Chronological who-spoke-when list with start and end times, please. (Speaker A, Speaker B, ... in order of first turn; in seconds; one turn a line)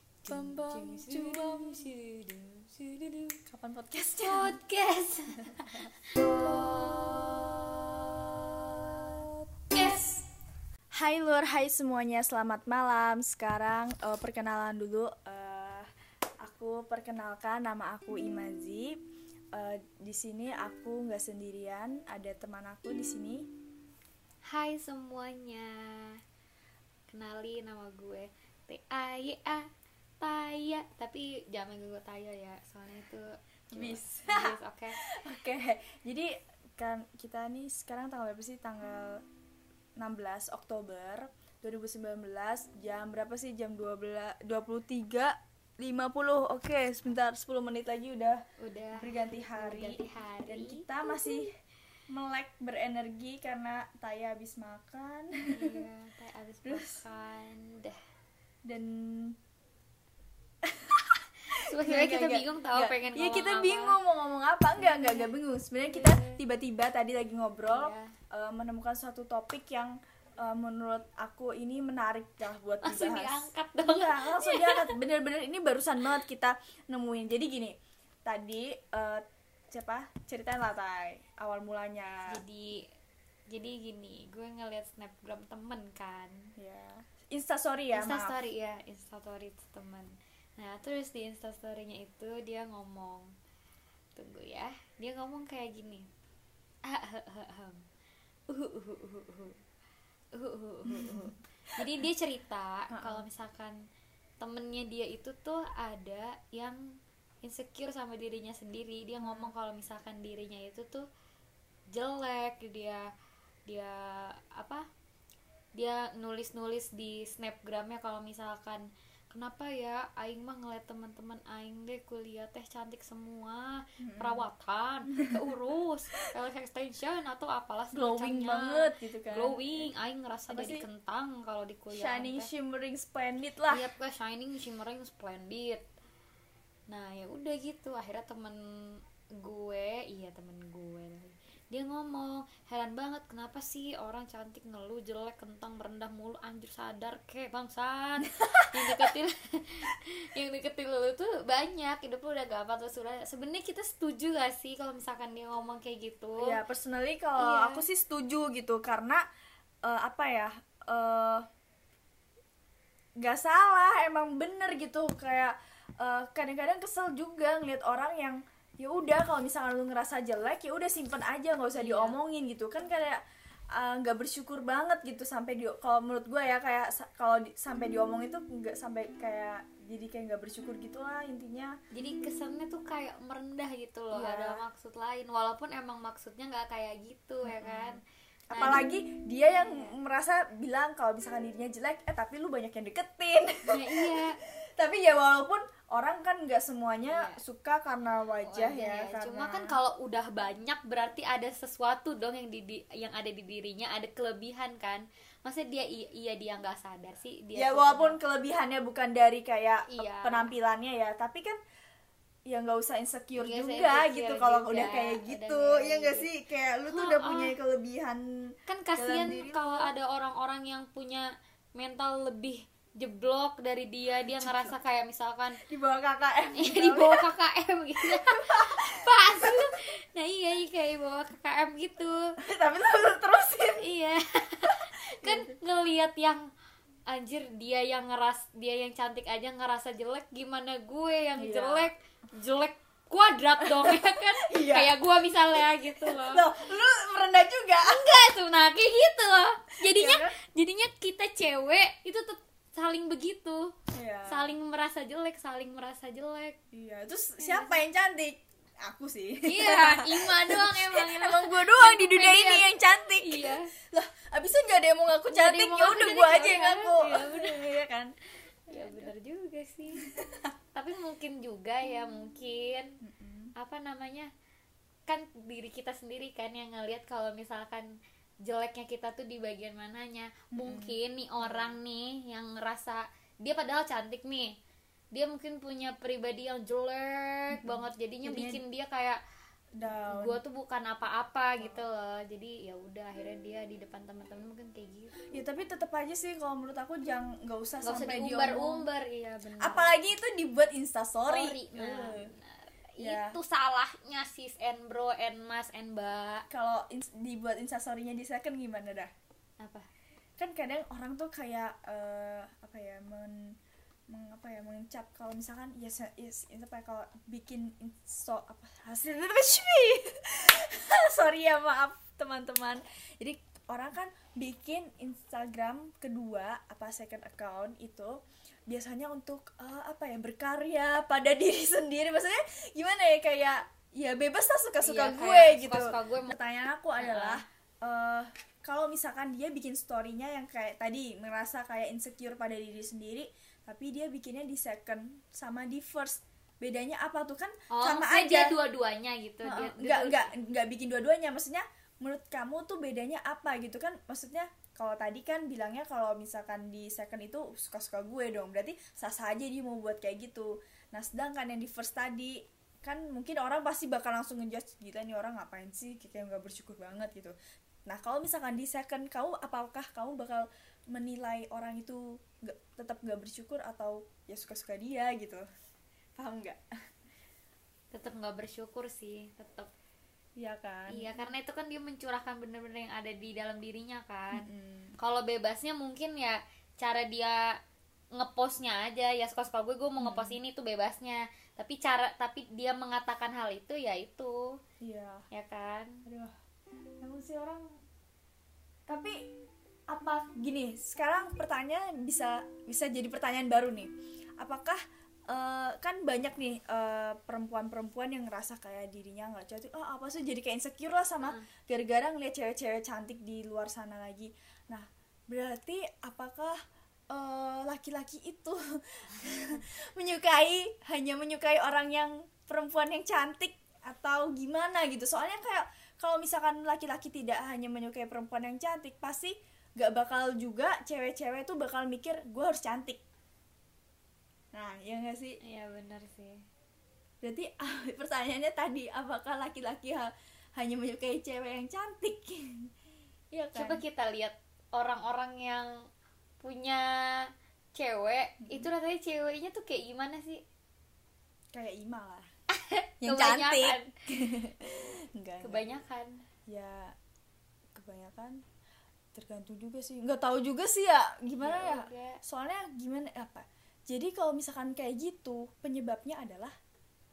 Speaker A: 0.2-3.4
Speaker B: 0.3-1.9
Speaker B: 3.5-4.6
Speaker A: 4.2-9.2
Speaker A: 9.7-10.2
Speaker B: 9.8-10.1
Speaker B: 10.9-15.9
Speaker B: 16.4-19.0
Speaker B: 19.5-23.5
Speaker A: 24.5-26.2
Speaker A: 27.1-29.7
Speaker A: 30.2-35.0
Speaker B: 33.7-39.2
Speaker B: 40.0-48.4
Speaker A: 48.6-50.9
Speaker B: 49.0-51.5
Speaker B: 52.1-55.8
Speaker A: 55.5-58.0
Speaker B: 56.6-57.0
Speaker B: 58.7-59.4
Speaker B: 60.6-82.4
Speaker A: 61.7-64.0
Speaker A: 64.8-65.3
Speaker A: 65.9-66.4
Speaker A: 67.7-68.1
Speaker A: 72.8-74.9
Speaker A: 82.3-82.8
Speaker A: 83.5-86.5
Speaker B: 86.6-88.3
Speaker A: 87.9-93.3
Speaker A: 94.2-96.1
Speaker A: 96.9-97.8
Speaker A: 98.5-99.6
Speaker A: 100.3-103.8
Speaker B: 100.9-101.3
Speaker B: 102.9-103.2
Speaker A: 104.4-111.1
Speaker B: 109.2-109.5
Speaker A: 111.9-113.0
Speaker A: 113.7-114.8
Speaker A: 115.8-132.5
Speaker B: 124.0-124.5
Speaker B: 127.9-129.9
Speaker B: 130.5-130.8
Speaker B: 131.9-133.8
Speaker A: 133.7-135.8
Speaker A: 136.9-156.6
Speaker B: 148.5-149.1
Speaker B: 156.4-159.2
Speaker A: 157.4-157.8
Speaker B: 159.8-161.5
Speaker B: 163.2-173.2
Speaker A: 171.7-172.2
Speaker B: 173.7-181.7
Speaker A: 181.9-188.0
Speaker B: 184.1-184.6
Speaker B: 187.4-188.0
Speaker A: 188.5-188.8
Speaker B: 188.5-194.3
Speaker A: 189.6-189.9
Speaker A: 193.7-194.4
Speaker B: 194.8-199.8
Speaker A: 197.0-197.4
Speaker A: 198.4-208.2
Speaker B: 207.6-211.6
Speaker A: 209.9-210.5
Speaker B: 212.5-218.2
Speaker A: 213.4-216.3
Speaker A: 216.9-217.5
Speaker A: 218.7-225.6
Speaker B: 219.0-219.9
Speaker B: 224.3-224.8
Speaker B: 225.7-227.3
Speaker A: 226.6-232.3
Speaker B: 228.0-229.6
Speaker B: 232.4-233.8
Speaker A: 233.8-236.4
Speaker B: 235.2-235.5
Speaker A: 237.1-246.5
Speaker B: 241.4-241.9
Speaker B: 243.6-245.0
Speaker B: 245.6-248.3
Speaker A: 247.8-253.7
Speaker B: 249.8-250.3
Speaker B: 253.9-254.5
Speaker A: 254.3-256.6
Speaker B: 256.7-268.1
Speaker A: 257.4-257.8
Speaker A: 259.5-262.7
Speaker A: 263.2-263.7
Speaker A: 265.3-267.7
Speaker A: 268.7-270.0
Speaker B: 268.7-269.1
Speaker B: 270.0-270.5
Speaker A: 270.8-273.0
Speaker B: 273.0-273.5
Speaker A: 273.6-274.3
Speaker A: 275.1-284.5
Speaker B: 280.5-281.8
Speaker A: 285.1-289.2
Speaker B: 287.5-288.6
Speaker B: 289.8-290.4
Speaker A: 290.1-295.2
Speaker B: 295.3-298.9
Speaker A: 297.8-299.9
Speaker B: 299.6-302.3
Speaker A: 301.3-306.4
Speaker B: 303.0-303.4
Speaker B: 306.5-309.1
Speaker A: 309.6-309.9
Speaker B: 310.4-313.6
Speaker B: 314.1-328.1
Speaker B: 328.7-348.6
Speaker A: 334.8-336.3
Speaker A: 337.0-337.4
Speaker A: 347.7-350.3
Speaker B: 349.4-367.3
Speaker B: 367.9-375.4
Speaker B: 376.2-376.6
Speaker A: 377.9-379.7
Speaker B: 380.4-381.1
Speaker A: 380.9-384.5
Speaker B: 384.3-385.0
Speaker A: 385.0-387.5
Speaker A: 388.2-394.6
Speaker B: 390.0-390.4
Speaker B: 394.8-395.2
Speaker A: 395.3-396.0
Speaker B: 396.1-396.3
Speaker B: 397.0-397.7
Speaker B: 398.9-399.2
Speaker B: 399.9-416.6
Speaker B: 417.1-433.0
Speaker B: 434.5-435.4
Speaker A: 435.4-436.4
Speaker B: 437.2-442.7
Speaker B: 443.3-443.8
Speaker A: 443.5-445.7
Speaker A: 446.4-450.4
Speaker B: 448.4-448.7
Speaker B: 451.5-452.3
Speaker A: 452.6-453.9
Speaker B: 453.0-455.6
Speaker A: 455.4-456.2
Speaker B: 456.5-456.9
Speaker B: 457.7-458.4
Speaker B: 459.1-466.5
Speaker A: 461.4-462.2